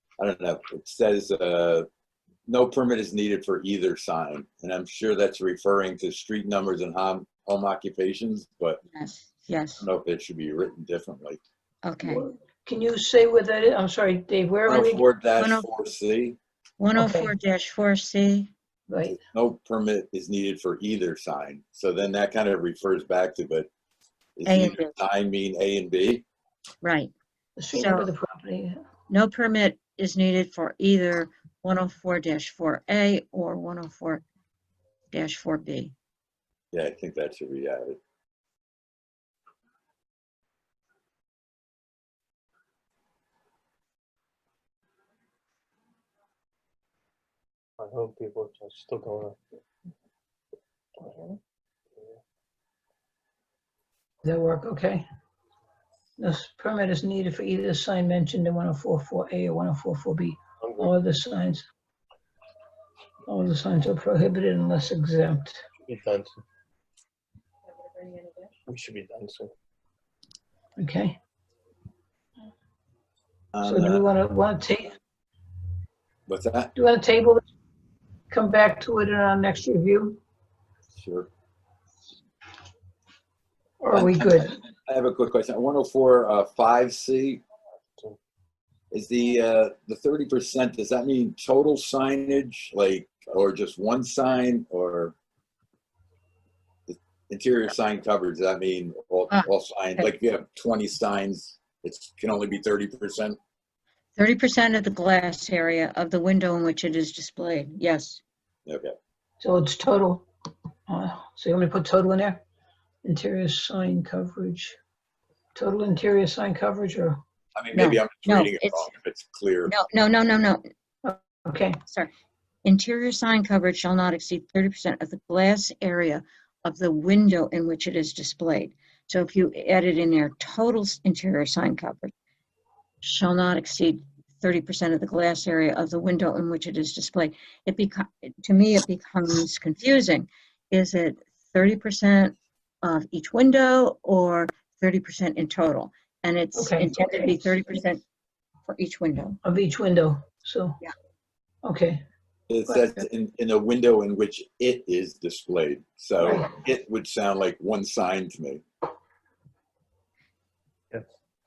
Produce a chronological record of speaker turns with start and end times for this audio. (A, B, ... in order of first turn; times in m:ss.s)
0:00.2-0:01.9 A
0:02.5-0:08.8 A
0:08.9-0:09.8 B
0:09.8-0:11.4 A
0:11.8-0:12.2 B
0:12.0-0:15.0 C
0:14.6-0:16.4 A
0:15.4-0:15.7 B
0:16.8-0:18.5 B
0:16.9-0:17.3 C
0:18.9-0:19.2 C
0:19.2-0:23.7 A
0:24.4-0:26.2 A
0:24.4-0:24.9 B
0:26.8-0:27.1 B
0:27.6-0:28.8 C
0:27.7-0:28.1 B
0:29.1-0:34.2 B
0:35.1-0:35.9 B
0:36.7-0:38.0 A
0:47.8-0:49.4 D
0:51.0-0:51.4 D
0:54.2-0:55.0 C
0:56.2-1:01.7 C
1:00.6-1:00.9 D
1:03.3-1:05.6 C
1:05.8-1:06.4 D
1:08.7-1:09.5 D
1:10.8-1:11.2 C
1:13.5-1:14.0 A
1:13.6-1:15.0 C
1:16.3-1:16.7 A
1:16.7-1:17.4 C
1:18.3-1:20.2 C
1:21.0-1:21.3 A
1:23.8-1:24.6 C
1:23.9-1:27.4 A
1:28.9-1:35.2 A
1:36.9-1:43.4 A
1:39.3-1:40.1 B
1:44.2-1:48.2 B
1:48.7-1:49.0 A
1:49.4-1:50.3 C
1:50.9-1:52.4 C
1:53.0-1:54.8 C
1:55.5-1:57.2 C
1:57.6-1:59.8 A
1:57.7-1:58.9 B
1:59.7-2:00.6 B
2:01.0-2:01.8 C
2:02.6-2:12.1 B
2:13.0-2:28.0 B
2:26.5-2:27.5 C
2:28.7-2:29.4 B
2:29.4-2:30.8 C
2:31.6-2:32.0 C
2:32.5-2:38.6 A
2:32.7-2:33.0 C
2:36.2-2:36.5 C